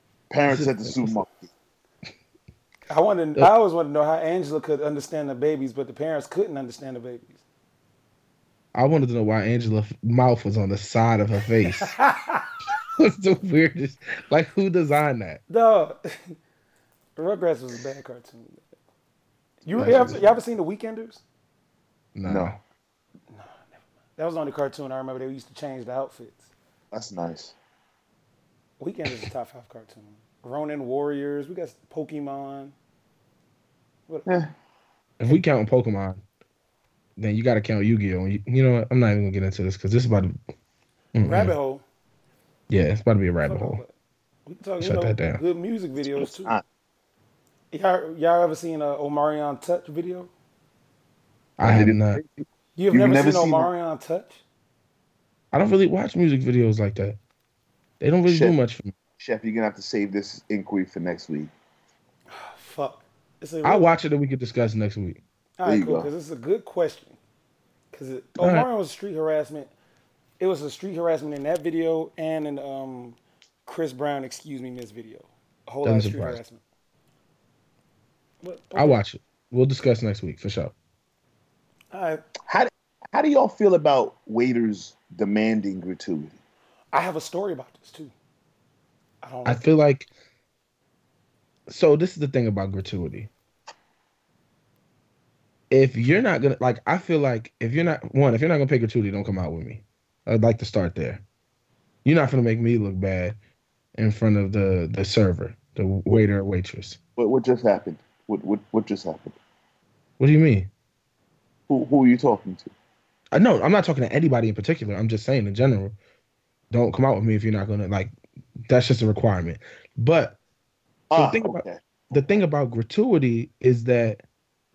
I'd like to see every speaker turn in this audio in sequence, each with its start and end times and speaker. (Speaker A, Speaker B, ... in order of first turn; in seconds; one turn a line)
Speaker A: 0.3-1.5
Speaker B: 0.5-1.2
Speaker C: 2.9-7.4
Speaker B: 8.7-11.9
Speaker C: 11.8-12.5
Speaker B: 13.0-15.4
Speaker C: 15.5-16.4
Speaker C: 17.1-18.6
Speaker C: 19.6-21.2
Speaker B: 19.7-20.3
Speaker B: 22.1-22.6
Speaker A: 22.3-22.5
Speaker C: 23.3-26.5
Speaker A: 26.9-27.6
Speaker C: 28.8-32.7
Speaker A: 34.3-34.5
Speaker B: 35.2-36.2
Speaker B: 37.2-40.4
Speaker B: 41.1-41.5
Speaker C: 41.2-41.8
Speaker B: 42.7-43.8
Speaker C: 43.4-43.9
Speaker C: 44.5-46.6
Speaker B: 44.8-45.4
Speaker A: 46.0-46.6
Speaker C: 47.7-50.3
Speaker B: 51.6-52.2
Speaker A: 51.6-53.7
Speaker C: 52.8-54.4
Speaker B: 55.5-57.2
Speaker B: 58.0-58.9
Speaker A: 58.3-58.6
Speaker A: 59.2-61.5
Speaker C: 62.3-63.9
Speaker B: 63.6-65.2
Speaker C: 65.6-67.2
Speaker A: 65.6-66.1
Speaker C: 67.9-69.7
Speaker B: 68.4-68.7
Speaker C: 70.4-76.6
Speaker B: 75.8-76.4
Speaker C: 78.4-79.0
Speaker B: 78.8-80.7
Speaker C: 81.9-82.2
Speaker A: 82.5-86.4
Speaker C: 86.9-88.1
Speaker C: 89.2-89.6
Speaker B: 89.4-90.1
Speaker B: 91.7-93.3
Speaker B: 95.7-101.2
Speaker B: 102.0-103.4
Speaker B: 104.0-107.0
Speaker A: 107.2-109.4
Speaker B: 110.2-110.7
Speaker A: 111.7-112.7
Speaker B: 113.3-115.9
Speaker B: 116.7-118.1
Speaker B: 118.7-120.4
Speaker A: 121.1-122.4
Speaker B: 121.1-124.2